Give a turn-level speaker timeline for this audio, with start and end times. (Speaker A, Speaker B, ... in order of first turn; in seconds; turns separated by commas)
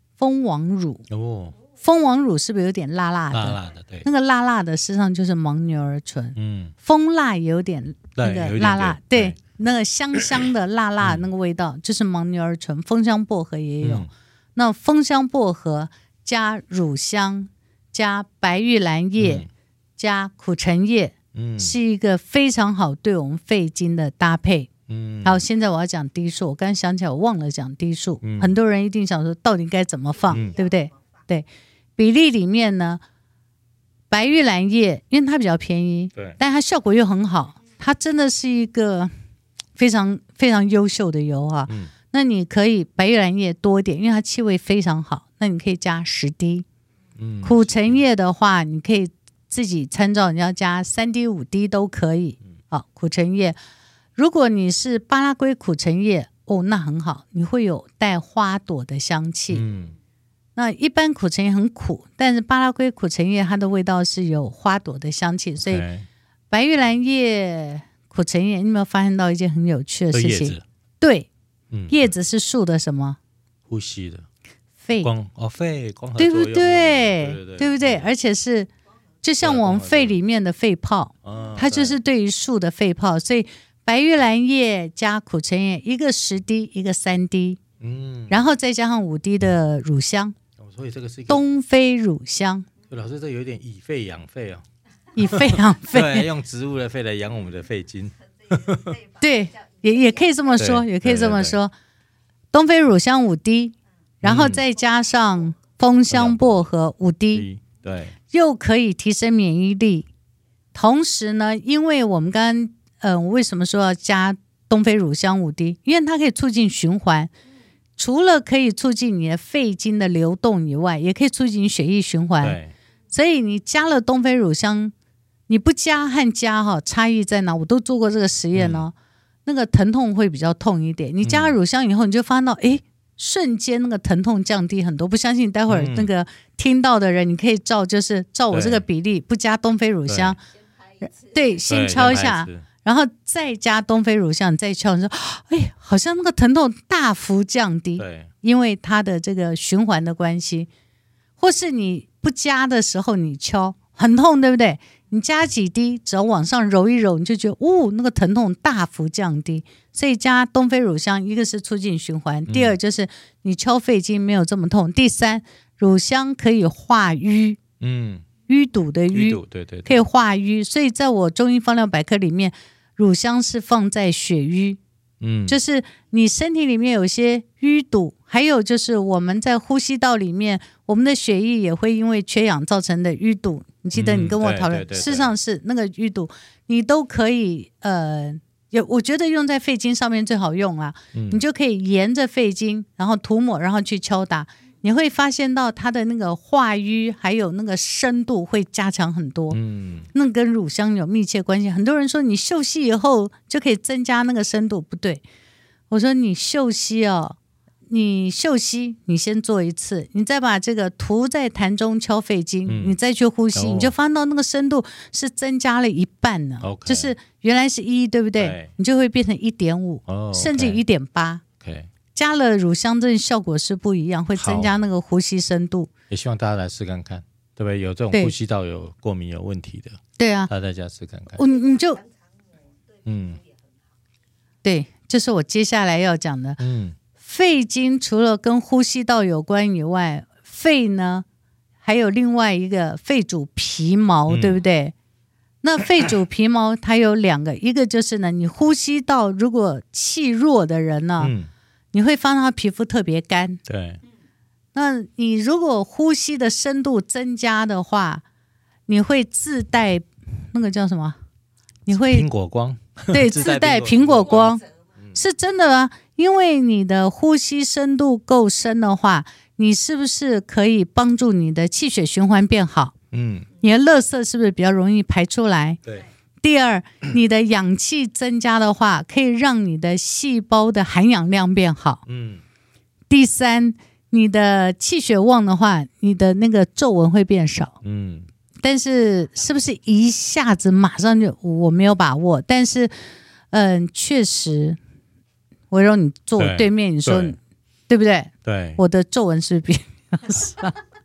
Speaker A: 0.2-1.1, Speaker B: 1.1-1.6, Speaker A: 1.8-24.7, Speaker B: 3.3-4.1, Speaker B: 6.4-6.8, Speaker B: 8.2-9.4, Speaker B: 11.0-11.3, Speaker B: 13.8-14.1, Speaker B: 19.2-19.5, Speaker B: 21.3-21.8, Speaker B: 24.9-25.4, Speaker A: 25.2-31.5, Speaker B: 28.2-28.6, Speaker A: 32.0-33.0, Speaker A: 34.1-39.1, Speaker A: 39.8-46.7, Speaker B: 47.2-48.0, Speaker A: 47.4-53.6, Speaker A: 54.2-59.6, Speaker B: 59.5-60.0, Speaker A: 60.6-65.9, Speaker B: 65.6-66.1, Speaker A: 66.5-71.3, Speaker B: 70.1-70.6, Speaker B: 71.7-72.1, Speaker A: 71.9-73.2, Speaker B: 73.7-74.3, Speaker A: 74.8-75.1, Speaker B: 75.0-78.1, Speaker A: 76.2-78.7, Speaker A: 79.2-87.6, Speaker B: 79.4-80.2, Speaker B: 81.2-82.0, Speaker B: 87.8-88.4, Speaker A: 88.3-90.3, Speaker B: 90.6-91.4, Speaker A: 91.3-92.7, Speaker B: 92.9-94.7, Speaker A: 95.2-96.3, Speaker B: 95.2-99.0, Speaker A: 99.2-101.7, Speaker B: 100.6-101.6, Speaker A: 102.5-107.5, Speaker B: 104.2-104.6, Speaker B: 106.1-106.7, Speaker B: 107.3-108.2, Speaker A: 108.3-110.1, Speaker A: 110.7-117.3, Speaker A: 118.0-122.6, Speaker B: 122.4-122.7, Speaker A: 123.1-124.9, Speaker A: 125.5-128.9, Speaker B: 128.5-128.9, Speaker A: 129.5-140.4, Speaker B: 131.2-131.6, Speaker B: 135.7-136.1, Speaker B: 138.5-138.8, Speaker B: 140.1-140.4, Speaker A: 141.0-150.7, Speaker B: 141.7-142.7, Speaker B: 148.0-148.3, Speaker A: 151.4-167.6, Speaker B: 162.5-162.8, Speaker B: 167.8-168.3, Speaker A: 168.5-174.8, Speaker B: 169.1-170.0, Speaker B: 175.2-175.6, Speaker A: 175.5-199.6, Speaker B: 183.9-185.3, Speaker B: 191.1-191.4, Speaker B: 199.5-200.1, Speaker A: 200.1-205.2, Speaker A: 205.9-207.4, Speaker A: 207.9-221.4, Speaker B: 212.7-213.0, Speaker B: 213.5-213.9, Speaker B: 216.6-217.1, Speaker B: 218.4-218.7, Speaker B: 220.1-220.8, Speaker B: 221.6-221.9, Speaker A: 222.2-225.9, Speaker B: 224.4-224.7, Speaker B: 226.1-231.4, Speaker A: 230.2-230.5, Speaker A: 231.4-232.0, Speaker B: 233.0-233.4, Speaker A: 234.6-236.6, Speaker B: 236.6-237.0, Speaker A: 237.2-241.2, Speaker A: 241.8-244.9, Speaker B: 244.3-244.6, Speaker A: 245.6-251.3, Speaker B: 251.2-251.5, Speaker A: 251.9-253.6, Speaker B: 253.7-254.0, Speaker A: 254.7-258.2, Speaker A: 258.9-261.2, Speaker A: 261.9-262.3, Speaker B: 261.9-265.2, Speaker A: 263.1-264.6, Speaker A: 265.1-272.9, Speaker B: 273.1-273.5, Speaker A: 273.6-275.8, Speaker A: 276.4-282.0, Speaker B: 282.1-282.4, Speaker A: 283.1-287.8, Speaker B: 287.8-288.3, Speaker A: 288.6-292.9, Speaker A: 293.5-294.8, Speaker A: 295.7-297.4, Speaker B: 296.4-297.4, Speaker A: 297.9-300.8, Speaker B: 298.4-298.8